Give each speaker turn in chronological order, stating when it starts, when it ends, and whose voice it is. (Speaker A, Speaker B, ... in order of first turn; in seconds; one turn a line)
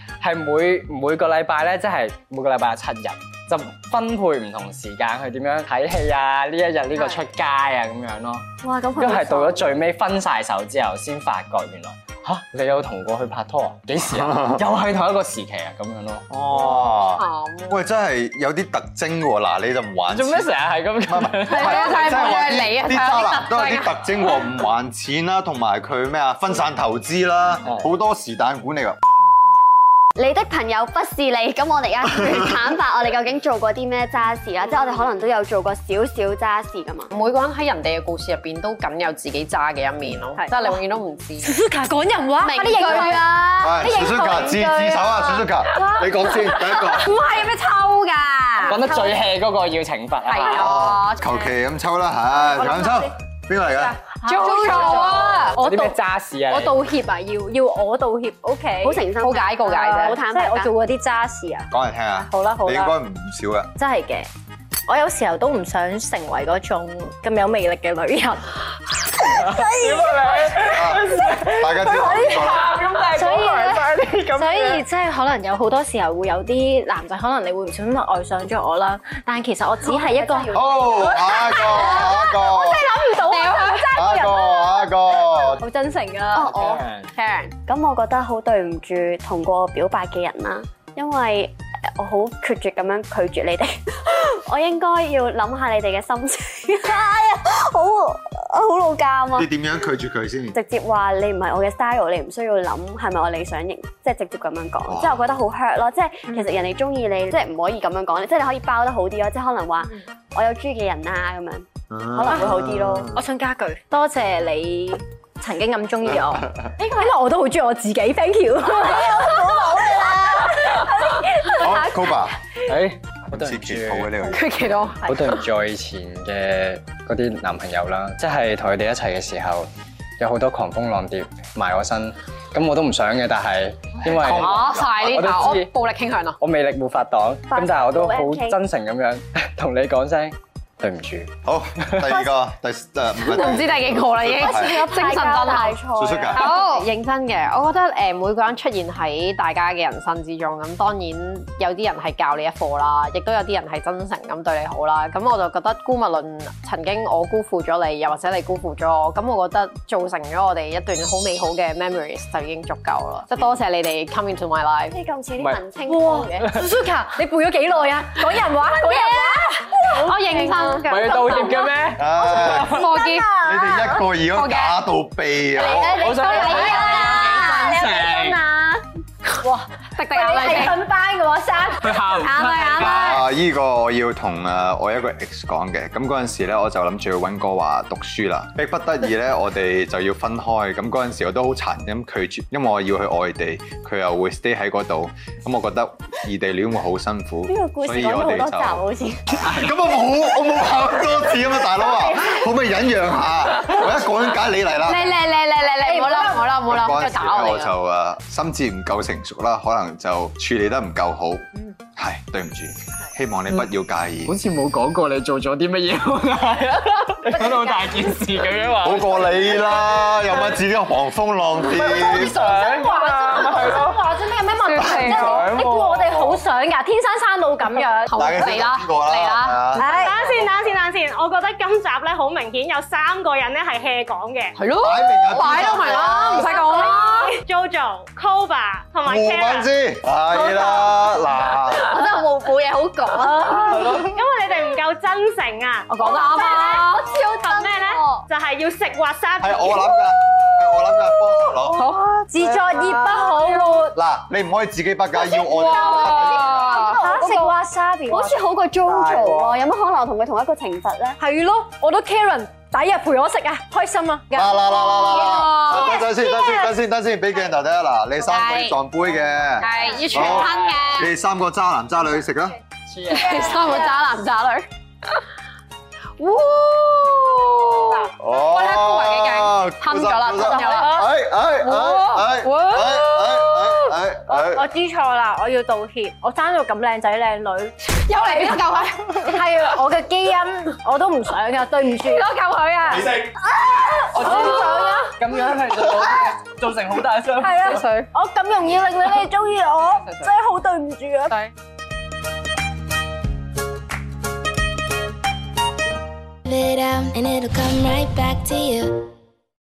Speaker A: 0.2-8.4
Speaker B: 8.6-9.7
Speaker A: 8.9-16.2
Speaker C: 14.2-14.6
Speaker C: 16.3-20.5
Speaker D: 16.5-17.8
Speaker A: 20.1-22.3
Speaker C: 21.0-29.0
Speaker D: 21.4-23.9
Speaker B: 30.1-37.1
Speaker D: 37.1-41.5
Speaker E: 40.4-40.9
Speaker E: 41.4-49.2
Speaker B: 42.4-43.4
Speaker C: 43.6-47.1
Speaker D: 46.9-48.8
Speaker A: 48.6-50.7
Speaker D: 50.2-51.5
Speaker C: 50.5-54.0
Speaker E: 52.4-53.1
Speaker E: 53.7-63.0
Speaker D: 54.2-55.6
Speaker A: 54.8-56.8
Speaker B: 58.8-60.7
Speaker D: 59.2-60.2
Speaker C: 61.7-63.7
Speaker E: 63.8-64.3
Speaker E: 64.9-68.5
Speaker E: 69.1-86.5
Speaker A: 69.3-74.8
Speaker C: 70.7-72.7
Speaker B: 79.8-81.1
Speaker C: 80.5-82.9
Speaker D: 81.7-82.0
Speaker D: 83.2-83.9
Speaker C: 83.9-85.6
Speaker B: 86.3-86.8
Speaker A: 86.4-87.1
Speaker D: 87.1-87.5
Speaker B: 87.7-99.5
Speaker C: 99.3-100.5
Speaker B: 100.5-113.2
Speaker C: 104.8-105.2
Speaker E: 106.3-106.5
Speaker C: 111.9-113.2
Speaker E: 113.1-122.3
Speaker C: 116.0-116.7
Speaker C: 121.5-122.3
Speaker A: 122.7-124.4
Speaker C: 123.3-124.5
Speaker D: 124.3-125.4
Speaker A: 125.0-135.7
Speaker C: 134.0-135.3
Speaker D: 134.3-136.4
Speaker A: 136.4-142.2
Speaker B: 137.5-138.6
Speaker C: 141.4-144.8
Speaker D: 143.2-164.9
Speaker B: 144.4-146.8
Speaker C: 145.9-146.5
Speaker B: 164.9-166.5
Speaker E: 165.9-173.9
Speaker A: 166.4-166.7
Speaker B: 168.9-169.4
Speaker D: 170.0-170.9
Speaker A: 170.8-172.9
Speaker C: 172.0-172.8
Speaker D: 172.5-173.5
Speaker C: 173.4-176.0
Speaker D: 174.3-174.8
Speaker E: 175.7-178.8
Speaker D: 175.7-177.7
Speaker B: 175.7-178.1
Speaker A: 175.9-178.4
Speaker E: 179.4-183.1
Speaker D: 179.9-180.8
Speaker A: 181.8-183.2
Speaker D: 182.3-183.1
Speaker C: 182.8-198.8
Speaker B: 197.4-199.4
Speaker C: 199.3-205.2
Speaker D: 204.8-207.7
Speaker E: 205.7-206.6
Speaker C: 206.6-214.4
Speaker A: 214.2-219.7
Speaker C: 218.8-222.4
Speaker E: 221.8-228.3
Speaker A: 222.0-224.0
Speaker D: 224.7-225.5
Speaker A: 224.7-226.4
Speaker D: 228.1-230.2
Speaker C: 228.1-229.8
Speaker F: 229.8-234.6
Speaker D: 234.5-237.4
Speaker C: 234.8-236.5
Speaker F: 235.4-239.7
Speaker C: 239.0-241.9
Speaker D: 240.5-240.8
Speaker B: 241.7-243.9
Speaker F: 243.2-250.1
Speaker D: 245.9-247.1
Speaker B: 246.2-248.2
Speaker C: 249.4-251.8
Speaker D: 251.7-253.9
Speaker E: 252.3-253.9
Speaker C: 253.9-256.8
Speaker D: 255.1-257.1
Speaker E: 255.8-258.4
Speaker B: 257.1-257.5
Speaker B: 258.1-261.2
Speaker A: 258.8-259.5
Speaker E: 261.2-266.5
Speaker C: 264.3-272.6
Speaker D: 264.9-266.0
Speaker D: 268.2-268.8
Speaker D: 269.6-271.1
Speaker E: 269.8-270.6
Speaker A: 272.9-273.9
Speaker D: 273.1-275.2
Speaker D: 276.2-281.1
Speaker C: 278.2-284.7
Speaker E: 280.5-280.9
Speaker D: 281.6-283.9
Speaker E: 284.3-295.2
Speaker D: 288.0-289.4
Speaker D: 292.1-295.1
Speaker A: 294.1-297.8
Speaker E: 297.4-301.4
Speaker D: 297.6-298.1
Speaker D: 300.0-300.3
Speaker G: 306.4-309.1